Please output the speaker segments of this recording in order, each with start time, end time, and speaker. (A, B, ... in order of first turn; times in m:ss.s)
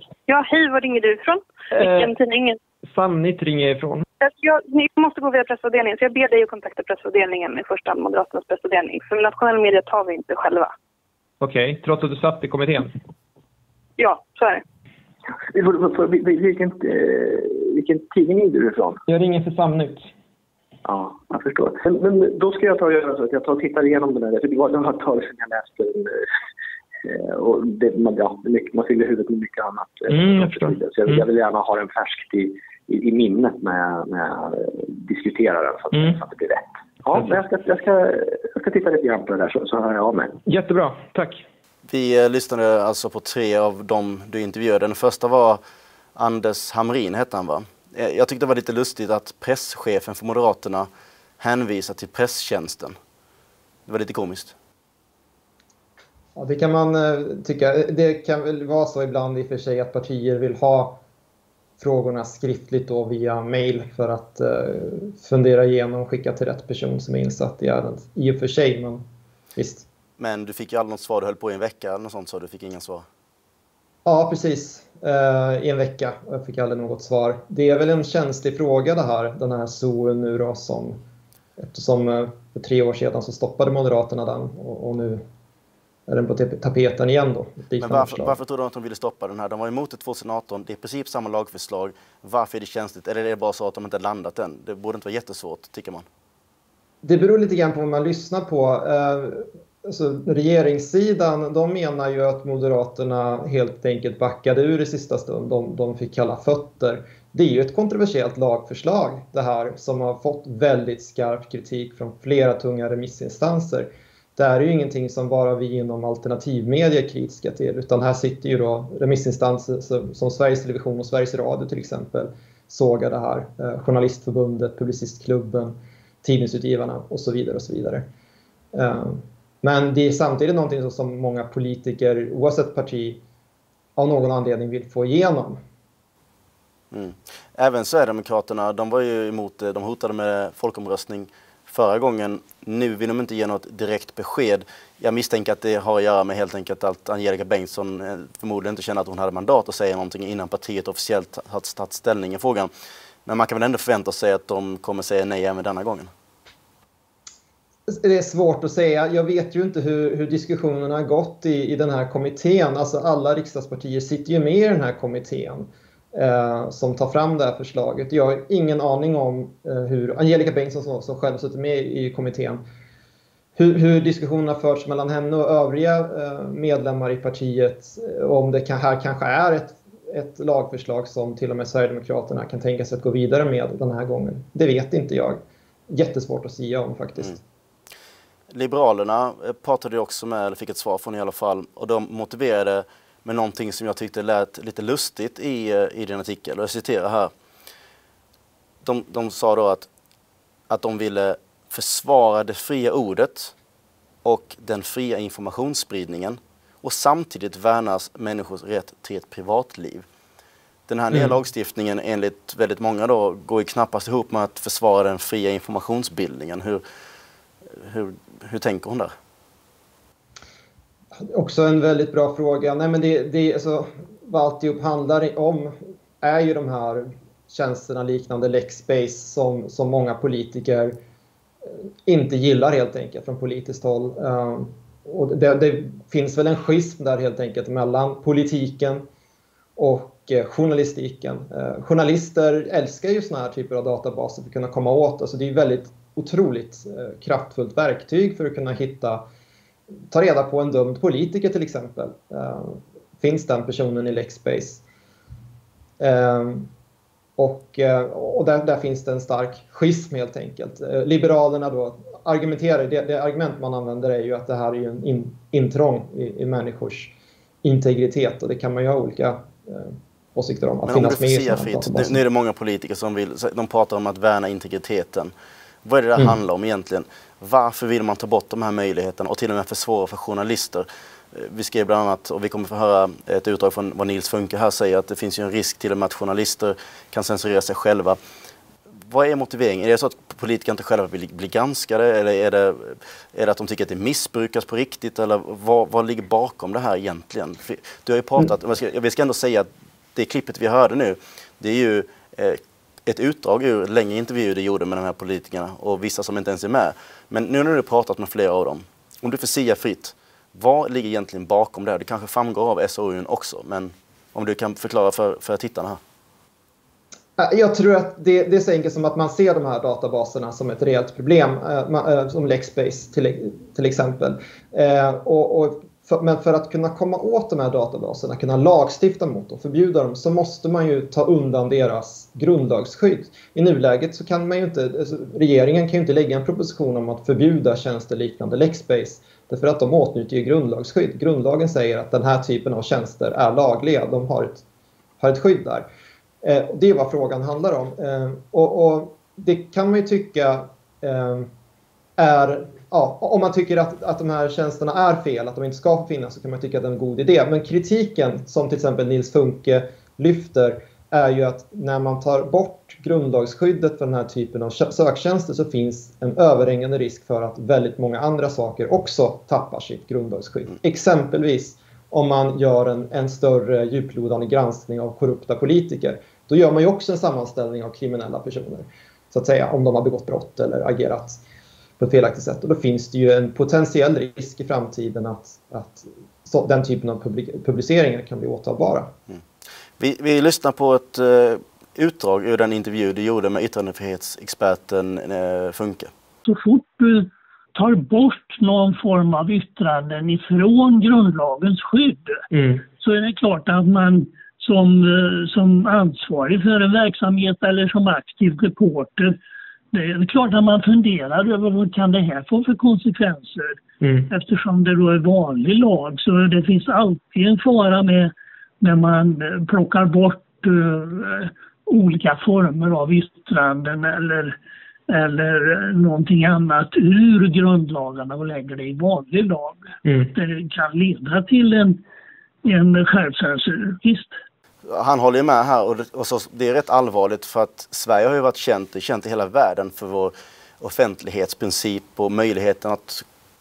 0:00.3-0:02.6 A
0:01.8-0:02.1 B
0:02.8-0:04.0 B
0:04.2-0:10.7 A
0:11.4-0:12.9 B
0:14.0-0:14.6 A
0:15.5-0:19.0 C
0:19.1-0:20.1 B
0:20.8-0:26.2 C
0:27.0-0:40.4 C
0:30.3-0:30.7 B
0:40.5-0:41.4 B
0:41.8-0:45.6 D
0:46.1-0:52.9 D
0:53.8-0:54.6 D
0:56.4-1:01.0 B
1:01.8-1:09.9 B
1:10.2-1:13.0 D
1:14.0-1:21.0 B
1:21.6-1:25.2 B
1:26.1-1:28.4 B
1:27.8-1:36.1 D
1:37.0-2:08.0 B
2:08.7-2:13.2 B
2:14.0-2:15.6 B
2:16.9-2:32.7 D
2:33.2-2:36.1 D
2:37.9-2:52.6 B
2:53.6-3:07.4 B
3:08.5-3:17.3 D
3:18.8-3:19.9 D
3:20.7-3:23.5 D
3:24.2-3:30.1 D
3:30.9-3:36.8 D
3:37.7-3:39.1 D
3:41.3-3:51.0 B
3:52.0-3:59.0 B
3:59.8-4:09.2 B
4:10.1-4:14.8 B
4:16.0-4:16.7 B
4:17.4-4:32.2 B
4:30.8-4:35.3 D
4:35.8-4:48.2 D
4:49.0-5:16.0 D
5:17.4-5:44.6 B
5:45.2-5:45.8 B
5:46.4-5:51.5 B
5:52.2-6:21.4 B
6:22.0-6:29.1 B
6:30.0-6:36.1 D
6:36.4-6:42.4 E
6:42.5-6:42.8 B
6:43.0-6:49.3 E
6:49.9-6:53.8 E
6:54.0-6:54.3 B
6:54.3-7:04.5 E
7:05.1-7:09.8 E
7:10.3-7:12.0 E
7:12.6-7:14.3 E
7:14.8-7:23.2 D